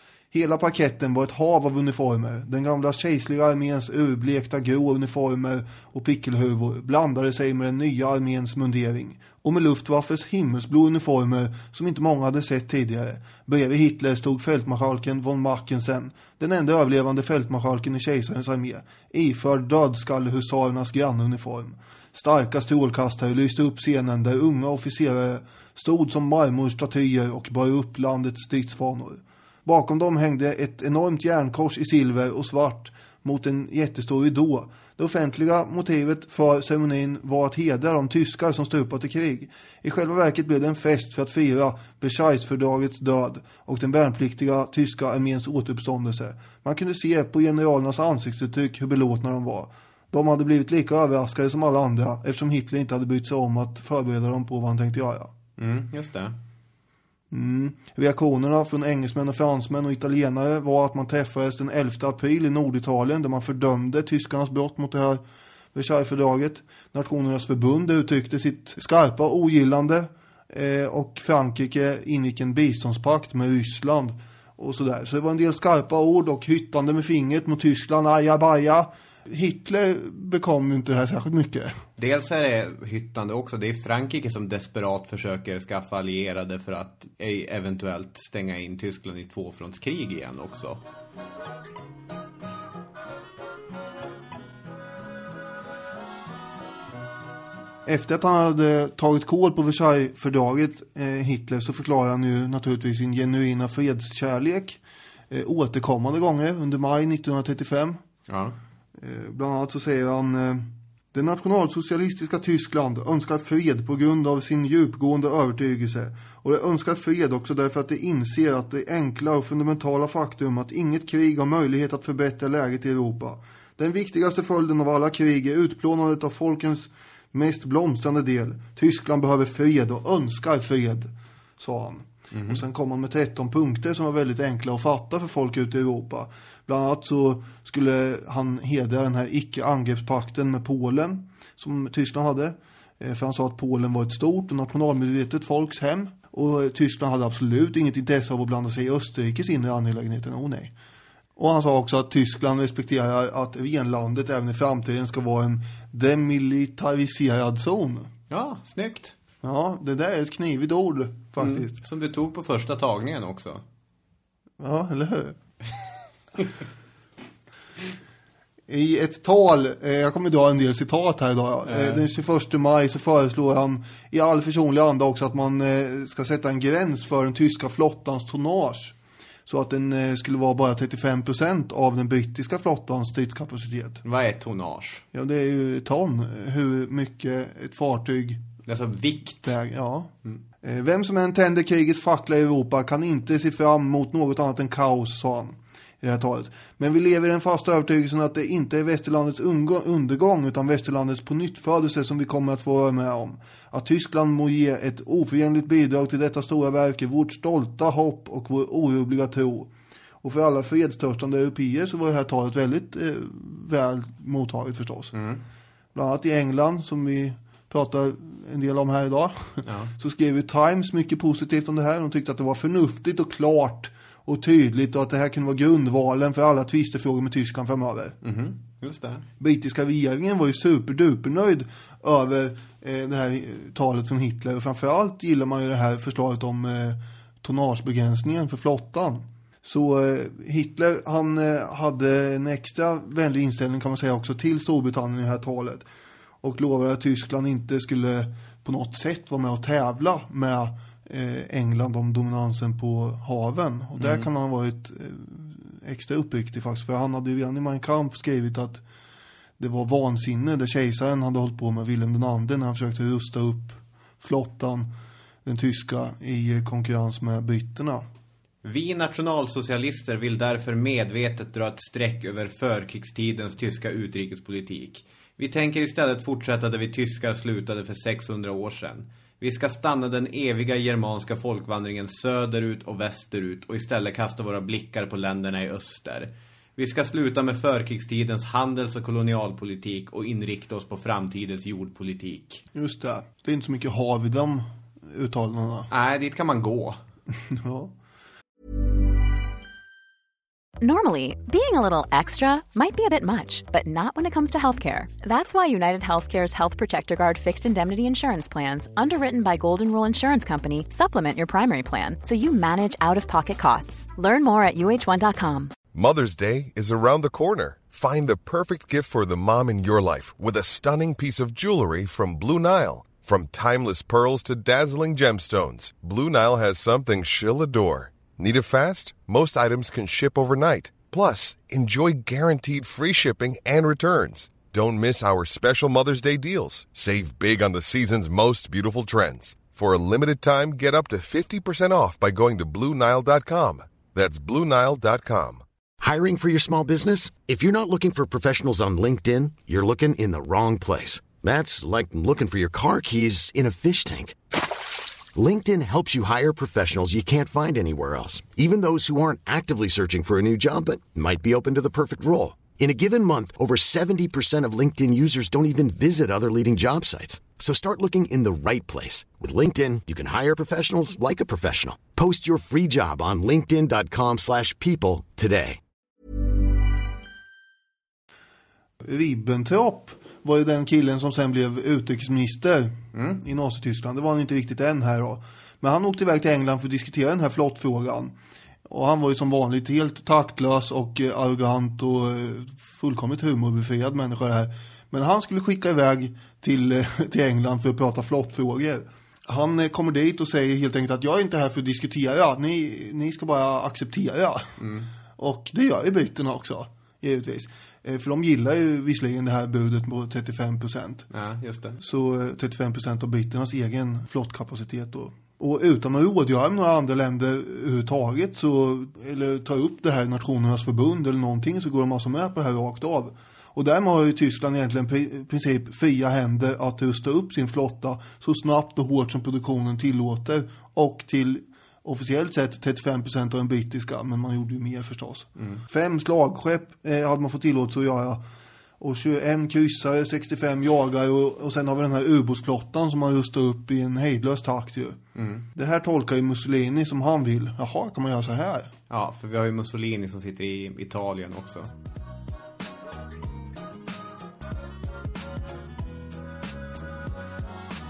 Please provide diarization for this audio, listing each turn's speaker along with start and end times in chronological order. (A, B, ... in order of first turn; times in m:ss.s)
0:00.3-0:55.3 A
0:55.6-0:56.4 B
0:57.3-1:05.2 A
1:05.7-1:21.8 A
1:22.0-1:30.8 B
1:37.9-1:48.0 A
1:48.3-1:48.6 B
1:49.0-2:30.7 A
2:12.3-2:12.6 B
2:31.4-2:38.1 A
2:38.3-2:39.2 B
2:39.4-2:41.8 A
2:41.4-2:43.6 B
2:44.6-2:45.4 A
2:48.7-2:59.0 A
2:51.7-2:52.0 B
2:59.5-3:04.0 A
3:04.0-3:05.0 B
3:05.1-3:08.4 A
3:08.7-3:09.6 B
3:09.4-3:29.7 A
3:30.2-3:35.1 A
3:35.1-3:35.4 B
3:35.9-3:48.2 A
3:39.6-3:39.9 B
3:48.2-3:49.2 B
3:49.4-4:05.9 A
4:06.4-4:18.8 A
4:14.0-4:14.3 B
4:19.6-4:24.9 A
4:25.4-4:28.0 A
4:28.6-4:52.6 B
4:52.7-4:55.9 A
4:55.9-4:57.0 B
4:57.4-4:57.9 A
5:00.8-5:15.7 C
5:15.9-5:45.6 D
5:46.0-5:54.4 E
5:55.4-6:15.8 E
6:19.0-6:28.4 A
6:23.1-6:23.4 B
6:28.9-6:44.8 A
6:44.8-6:45.1 B
6:45.4-6:51.3 A
6:51.3-6:52.0 B
6:52.0-7:18.4 A
7:15.6-7:15.8 B
7:19.0-7:25.2 A
7:25.4-7:25.7 B
7:25.8-7:28.9 A
7:29.1-7:31.9 B